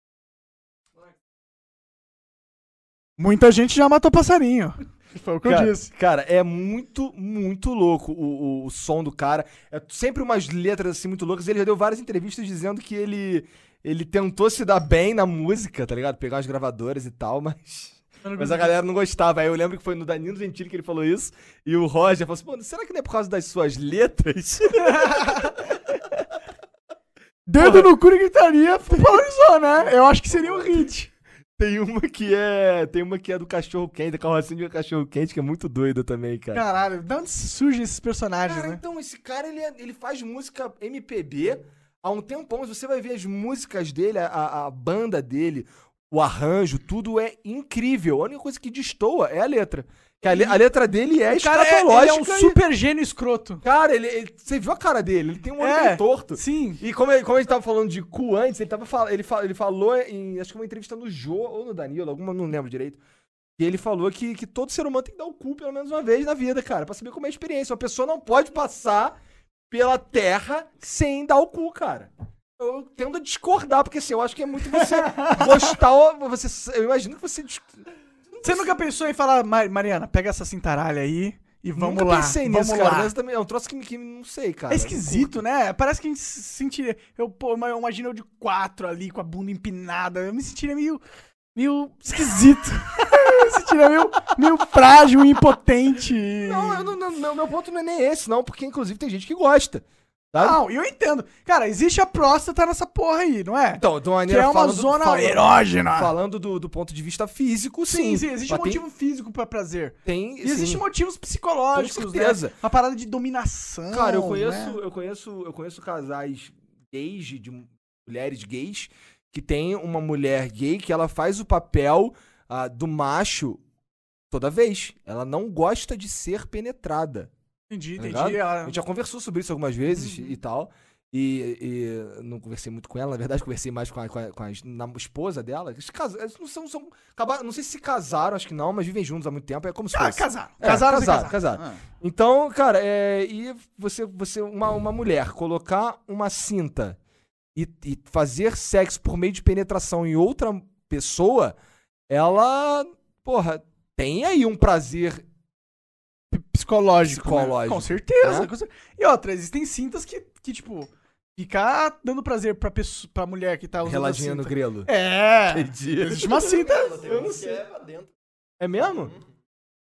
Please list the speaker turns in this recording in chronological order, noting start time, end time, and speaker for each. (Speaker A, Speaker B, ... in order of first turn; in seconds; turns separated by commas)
Speaker A: 3.2-5.9, Speaker B: 5.4-25.5, Speaker A: 18.2-18.7, Speaker A: 24.8-25.6, Speaker A: 27.5-31.1, Speaker B: 27.6-27.9, Speaker B: 28.9-29.2, Speaker B: 31.6-36.6, Speaker A: 36.5-38.8, Speaker B: 38.5-52.6, Speaker A: 50.2-50.6, Speaker A: 51.3-53.6, Speaker B: 53.6-63.0, Speaker A: 55.6-56.8, Speaker B: 63.6-69.2, Speaker B: 69.7-78.7, Speaker A: 74.7-75.6, Speaker A: 78.4-83.1, Speaker B: 81.8-85.4, Speaker A: 84.7-91.0, Speaker A: 91.5-96.9, Speaker B: 96.4-100.6, Speaker A: 100.4-106.1, Speaker B: 103.8-108.8, Speaker A: 107.9-114.8, Speaker B: 110.0-110.8, Speaker B: 111.7-112.5, Speaker B: 113.9-123.6, Speaker B: 124.3-127.3, Speaker A: 127.7-128.8, Speaker B: 128.0-147.0, Speaker A: 129.9-130.3, Speaker A: 139.9-141.8, Speaker B: 147.5-151.6, Speaker B: 152.1-155.2, Speaker A: 156.3-167.0, Speaker B: 157.0-158.5, Speaker B: 163.8-164.9, Speaker B: 165.5-167.6, Speaker C: 166.2-168.1, Speaker B: 168.6-169.1, Speaker C: 168.8-169.3